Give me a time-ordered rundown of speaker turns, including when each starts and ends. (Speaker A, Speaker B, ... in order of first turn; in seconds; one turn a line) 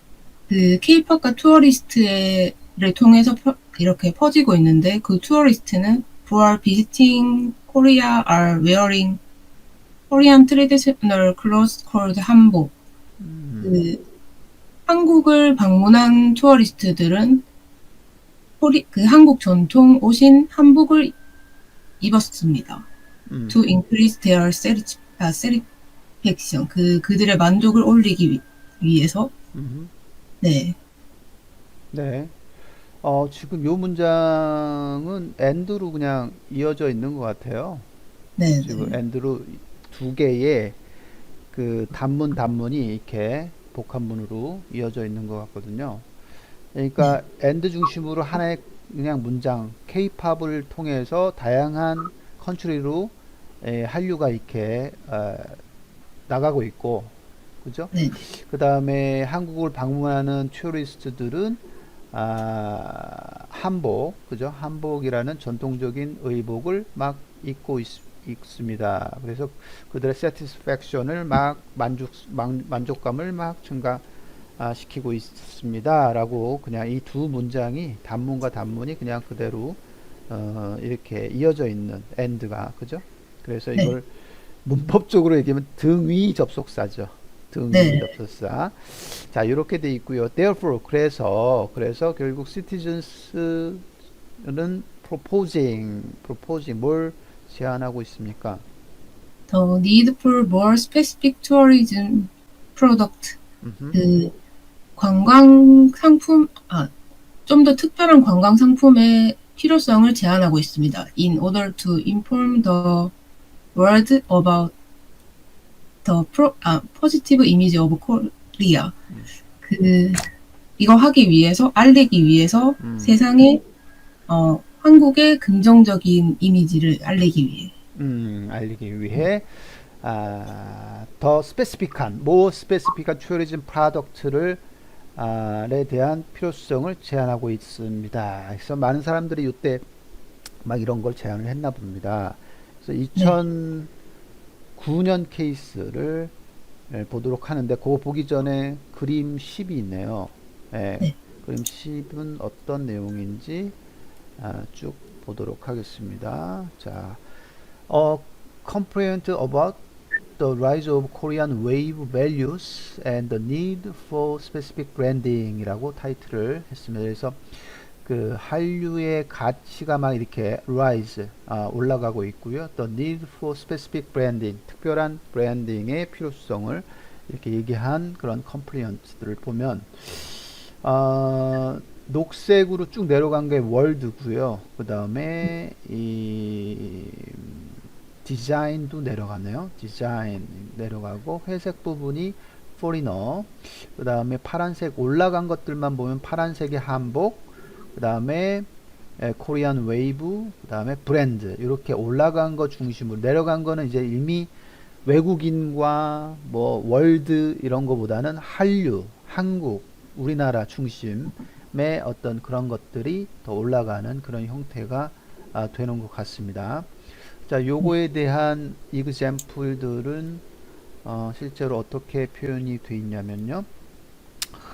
Speaker A: 0.5-9.2
Speaker A: 10.1-12.7
Speaker B: 13.2-13.8
Speaker A: 13.6-14.0
Speaker A: 14.9-17.4
Speaker A: 18.6-21.1
Speaker A: 22.0-22.9
Speaker B: 23.3-23.6
Speaker A: 23.5-25.7
Speaker A: 26.2-29.3
Speaker B: 29.5-29.9
Speaker A: 30.4-30.8
Speaker B: 31.9-32.3
Speaker B: 33.0-37.9
Speaker A: 38.4-39.0
Speaker B: 38.6-40.8
Speaker B: 41.5-46.1
Speaker B: 46.7-55.6
Speaker B: 56.3-61.6
Speaker A: 57.9-58.2
Speaker B: 62.1-74.0
Speaker B: 74.6-84.1
Speaker B: 84.6-93.9
Speaker A: 87.7-88.1
Speaker B: 94.4-98.6
Speaker A: 99.5-103.4
Speaker B: 103.6-104.0
Speaker A: 103.9-104.3
Speaker A: 105.0-106.9
Speaker A: 107.5-113.1
Speaker A: 113.7-114.7
Speaker A: 116.0-119.0
Speaker A: 119.6-120.3
Speaker A: 120.8-123.6
Speaker B: 122.8-123.2
Speaker A: 124.3-127.7
Speaker B: 128.0-134.6
Speaker B: 135.2-139.8
Speaker B: 140.6-143.9
Speaker B: 144.8-146.3
Speaker B: 146.9-153.8
Speaker B: 154.4-157.2
Speaker B: 157.9-159.8
Speaker B: 160.4-204.5
Speaker B: 205.1-220.4
Speaker B: 221.0-223.7